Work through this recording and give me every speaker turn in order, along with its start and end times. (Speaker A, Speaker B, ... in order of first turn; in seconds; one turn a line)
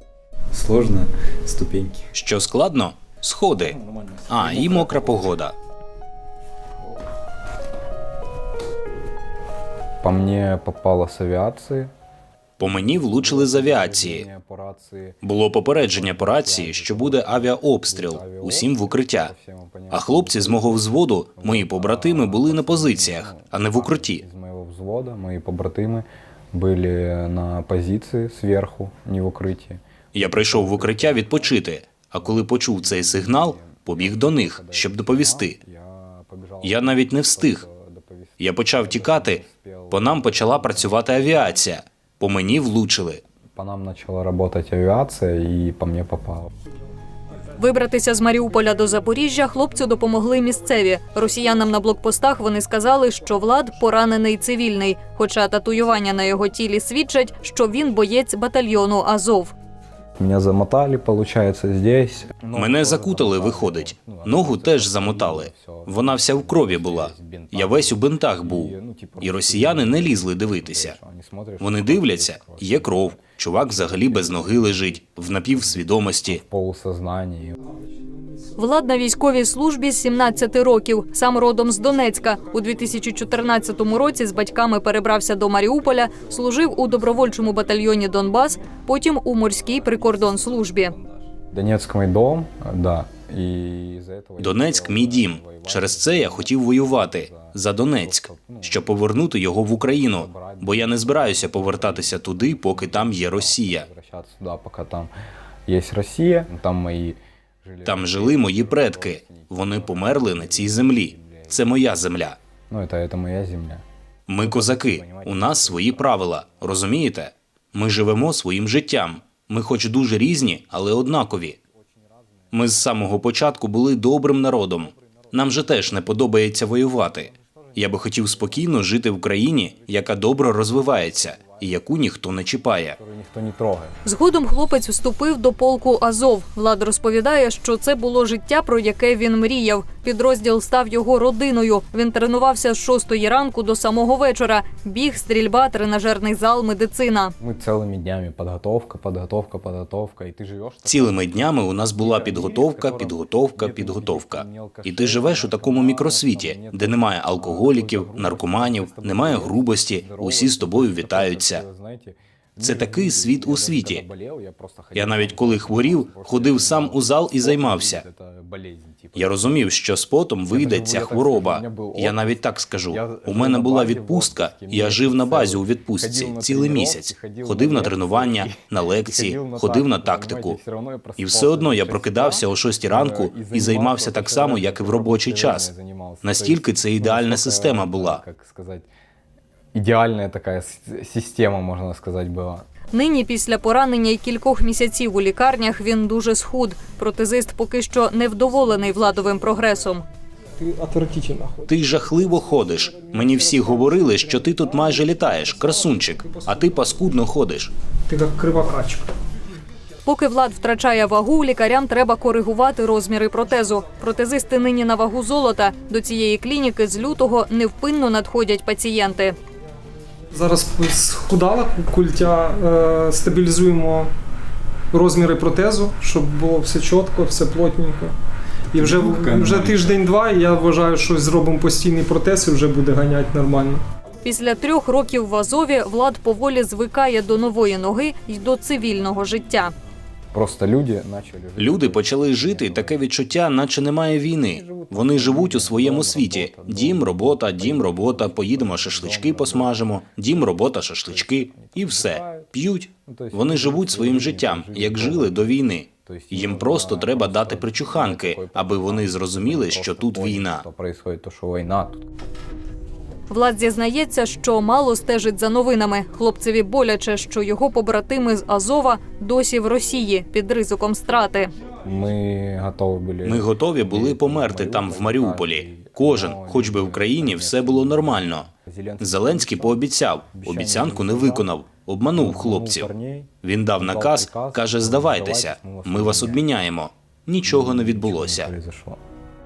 Speaker A: 0.5-2.1
Speaker B: 2.1-3.8
Speaker A: 3.5-5.4
Speaker B: 4.3-5.5
Speaker A: 10.0-11.9
Speaker B: 12.6-14.3
Speaker A: 13.0-15.2
Speaker B: 15.2-19.3
Speaker A: 15.8-41.6
Speaker B: 19.9-24.2
Speaker B: 30.1-35.6
Speaker B: 36.6-37.6
Speaker B: 38.4-43.2
Speaker A: 43.5-46.5
Speaker C: 47.5-59.5
Speaker A: 60.2-77.6
Speaker B: 62.5-71.0
Speaker B: 71.6-76.4
Speaker C: 78.6-91.0
Speaker A: 89.7-98.9
Speaker B: 94.4-103.9
Speaker A: 100.0-105.1
Speaker A: 105.7-111.7
Speaker B: 107.8-112.4
Speaker A: 112.7-113.8
Speaker B: 114.3-121.6
Speaker A: 114.4-116.8
Speaker A: 121.8-122.6
Speaker B: 122.5-133.0
Speaker A: 124.6-132.1
Speaker A: 132.8-134.0
Speaker C: 134.1-147.3
Speaker A: 147.4-169.5
Speaker B: 150.9-161.6
Speaker B: 162.6-164.1
Speaker B: 164.9-168.1
Speaker B: 169.2-180.6
Speaker A: 170.5-188.9
Speaker B: 181.2-185.7
Speaker B: 186.2-188.2
Speaker A: 189.7-192.7
Speaker C: 192.9-200.0
Speaker D: 198.8-199.5
Speaker D: 200.6-201.7
Speaker B: 201.7-207.7
Speaker D: 202.5-206.7
Speaker D: 208.1-209.1
Speaker C: 210.1-219.4
Speaker D: 220.3-224.1
Speaker D: 224.9-228.2
Speaker D: 228.7-233.8
Speaker A: 228.8-229.9
Speaker C: 234.2-239.7
Speaker A: 240.3-243.0
Speaker B: 241.6-260.6
Speaker A: 244.5-252.5
Speaker A: 253.1-255.5
Speaker A: 256.1-262.1
Speaker C: 263.3-271.5
Speaker A: 271.8-279.8
Speaker B: 273.2-278.5
Speaker B: 279.0-282.9
Speaker A: 280.3-281.5
Speaker A: 282.1-286.4
Speaker B: 283.4-288.5
Speaker A: 287.4-289.0